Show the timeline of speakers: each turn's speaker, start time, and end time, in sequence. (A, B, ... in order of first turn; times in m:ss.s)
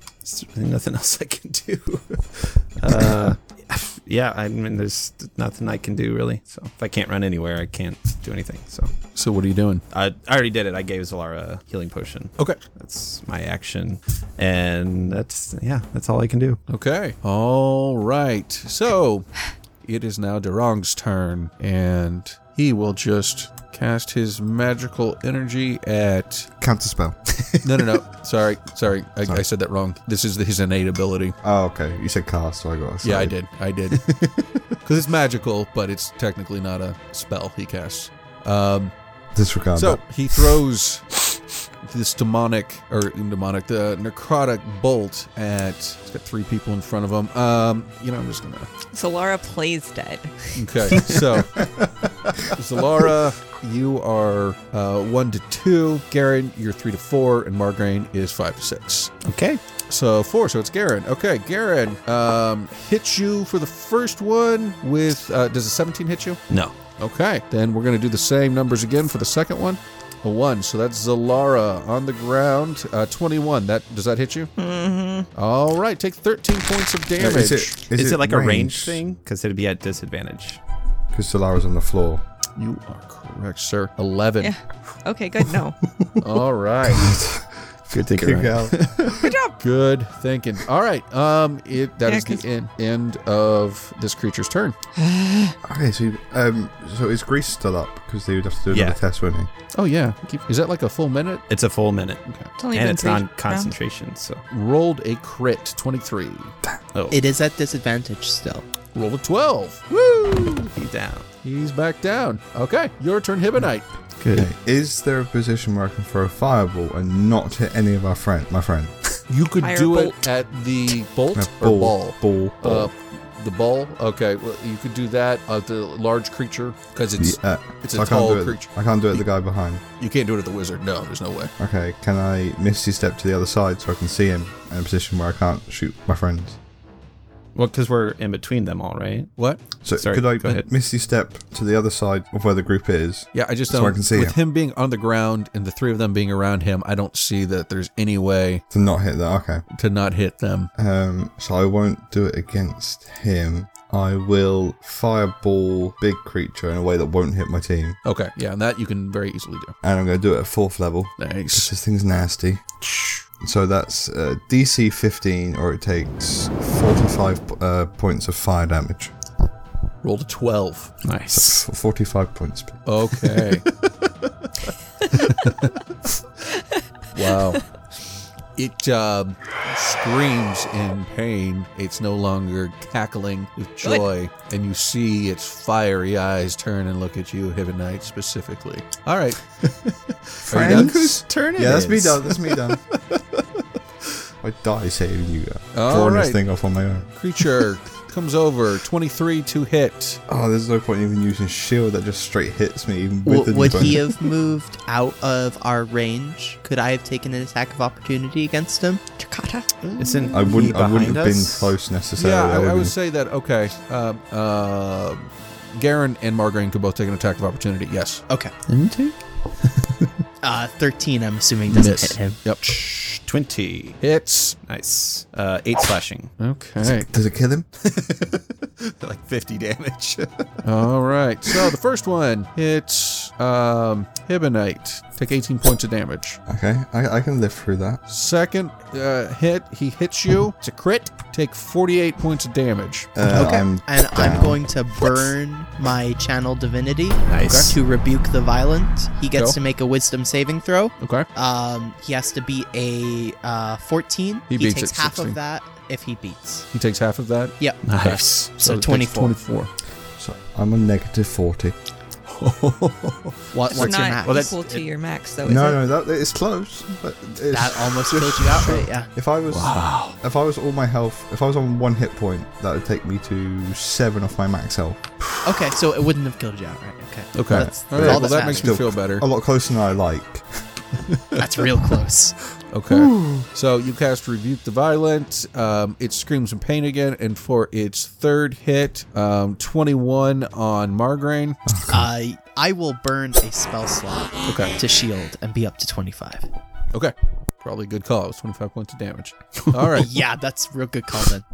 0:00.2-0:08.9 A
0:09.1-0:09.8 B
0:09.9-0:16.6 A
0:16.7-0:19.3 B
0:19.8-0:26.5 B
0:26.6-0:27.2 C
0:27.6-0:31.4 B
0:31.4-0:33.3 C
0:33.0-0:34.1 B
0:34.8-0:38.9 B
0:39.3-0:40.0 C
0:39.8-0:48.7 B
0:48.9-0:51.2 D
0:50.5-0:51.6 B
0:52.5-0:59.1 B
0:59.2-0:59.6 A
0:59.9-1:06.4 B
1:06.5-1:06.7 A
1:07.0-1:14.5 B
1:14.6-1:15.3 D
1:15.3-1:17.8 B
1:17.2-1:19.0 C
1:17.9-1:20.6 A
1:21.1-1:22.2 C
1:22.6-1:24.6 B
1:24.4-1:25.8 D
1:26.2-1:27.2 B
1:26.9-1:29.3 C
1:27.9-1:28.9 A
1:29.2-1:29.6 D
1:29.6-1:34.8 B
1:32.0-1:32.4 D
1:35.0-1:35.6 D
1:35.6-1:39.5 C
1:38.7-1:39.0 A
1:39.7-1:41.4 B
1:41.5-1:44.4 A
1:42.6-1:43.7 D
1:44.5-1:46.5 B
1:46.9-1:47.2 A
1:47.1-1:48.7 E
1:48.9-1:50.7 B
1:50.7-1:51.3 A
1:51.4-1:53.9 B
1:54.2-1:54.5 A
1:54.3-1:58.9 C
1:59.3-2:09.2 B
1:59.6-2:00.2 D
2:01.3-2:02.9 C
2:07.2-2:09.8 C
2:10.0-2:11.5 B
2:11.6-2:16.6 C
2:17.5-2:19.3 A
2:19.8-2:24.4 C
2:20.0-2:20.6 A
2:23.3-2:28.6 B
2:28.7-2:29.6 C
2:29.7-2:30.7 B
2:30.7-2:38.0 C
2:38.0-2:39.7 B
2:39.8-2:42.6 C
2:41.2-2:41.7 B
2:43.4-2:49.1 C
2:50.0-2:50.9 B
2:51.0-2:51.6 A
2:51.3-2:52.8 C
2:52.8-2:53.7 B
2:55.1-2:55.8 B
2:56.5-2:56.8 D
2:57.1-2:57.6 B
2:58.6-3:09.9 B
3:10.4-3:11.0 B
3:10.4-3:12.8 C
3:10.5-3:12.3 A
3:13.1-3:13.4 B
3:14.4-3:17.1 C
3:15.7-3:16.4 B
3:17.1-3:20.2 B
3:20.3-3:24.0 C
3:23.2-3:29.0 E
3:29.2-3:29.7 D
3:29.9-3:31.7 A
3:30.3-3:32.9 C
3:32.2-3:38.2 B
3:38.3-3:38.5 E
3:38.7-3:40.1 A
3:40.4-3:42.4 E
3:41.7-3:43.2 B
3:43.2-3:44.0 A
3:44.0-3:44.6 B
3:44.6-3:46.3 A
3:46.4-3:47.1 B
3:46.8-3:47.7 C
3:47.9-3:50.5 A
3:50.6-3:56.4 B
3:56.5-3:58.0 C
3:58.1-4:03.1 B
4:03.1-4:04.6 C
4:03.2-4:16.7 E
4:07.3-4:07.7 A
4:07.4-4:07.7 B
4:11.0-4:11.3 B
4:14.5-4:15.4 B
4:16.7-4:19.7 B
4:17.6-4:19.4 E
4:17.8-4:18.5 A
4:20.2-4:21.8 C
4:22.4-4:23.2 B
4:23.5-4:24.5 E
4:23.7-4:25.8 D
4:23.8-4:24.8 A
4:25.4-4:35.0 C
4:27.5-4:29.1 E
4:29.5-4:30.2 A
4:35.4-4:38.7 E
4:37.3-4:39.2 B
4:37.5-4:40.4 C
4:41.1-4:41.4 B
4:41.4-4:42.4 E
4:42.7-4:51.6 B
4:51.7-4:52.1 C
4:51.9-4:56.5 E
4:54.5-4:54.7 B
4:56.9-5:00.1 B
5:00.0-5:01.4 E